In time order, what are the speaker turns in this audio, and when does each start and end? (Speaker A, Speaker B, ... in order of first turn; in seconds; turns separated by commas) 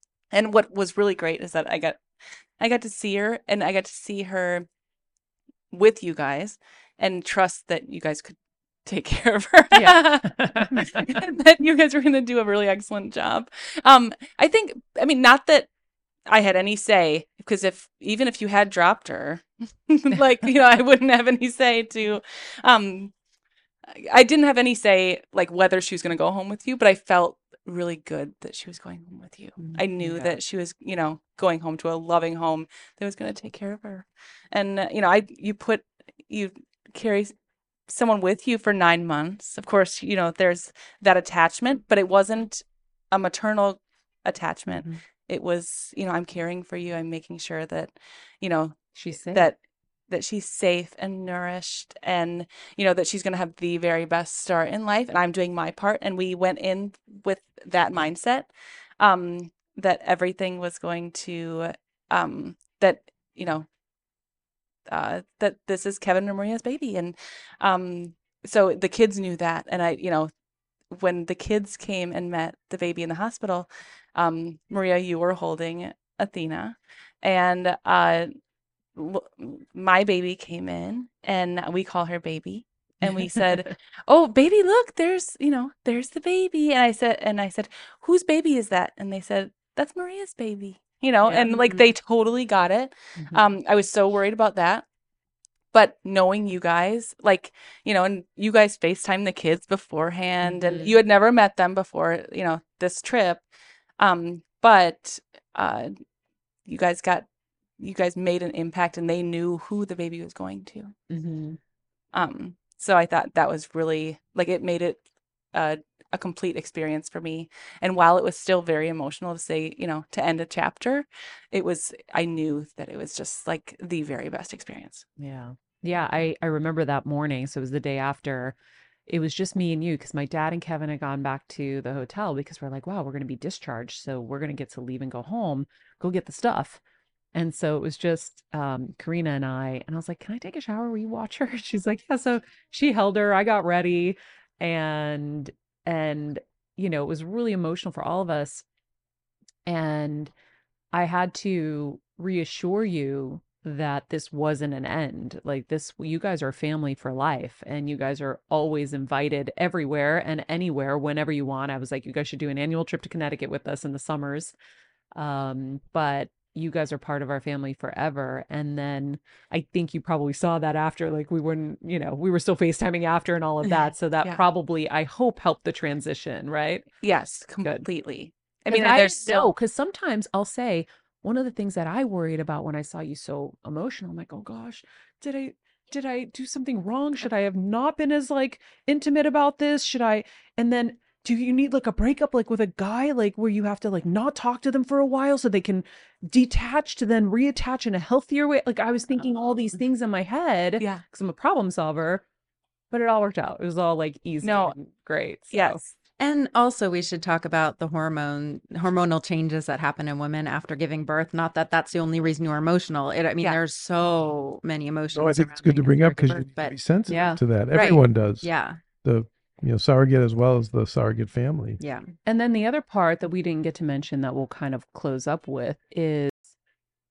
Speaker A: 0.3-2.0, Speaker A: 2.6-4.7, Speaker A: 5.7-15.7, Speaker B: 9.7-11.2, Speaker A: 16.3-23.1, Speaker A: 23.9-37.3, Speaker B: 29.6-30.4, Speaker A: 37.9-63.7, Speaker B: 44.7-45.0, Speaker B: 48.9-49.5, Speaker A: 64.9-70.3, Speaker A: 70.9-78.3, Speaker A: 78.9-94.8, Speaker B: 83.0-83.7, Speaker B: 91.2-91.9, Speaker B: 93.2-93.5, Speaker A: 95.7-103.5, Speaker B: 100.4-101.0, Speaker A: 104.0-105.9, Speaker A: 106.7-107.3, Speaker A: 107.8-110.9, Speaker B: 111.1-111.6, Speaker A: 112.1-125.0, Speaker B: 125.2-128.6, Speaker B: 129.1-136.8, Speaker B: 137.3-148.6, Speaker B: 149.7-150.3, Speaker B: 150.9-164.5, Speaker B: 165.2-176.9, Speaker A: 177.0-179.5, Speaker B: 178.7-202.2, Speaker B: 202.9-205.9, Speaker A: 204.4-204.7, Speaker A: 205.5-205.8, Speaker C: 206.2-216.8, Speaker D: 215.1-218.5, Speaker B: 217.1-217.4, Speaker C: 217.7-218.8, Speaker D: 219.0-221.8, Speaker C: 221.8-222.1, Speaker B: 222.2-226.4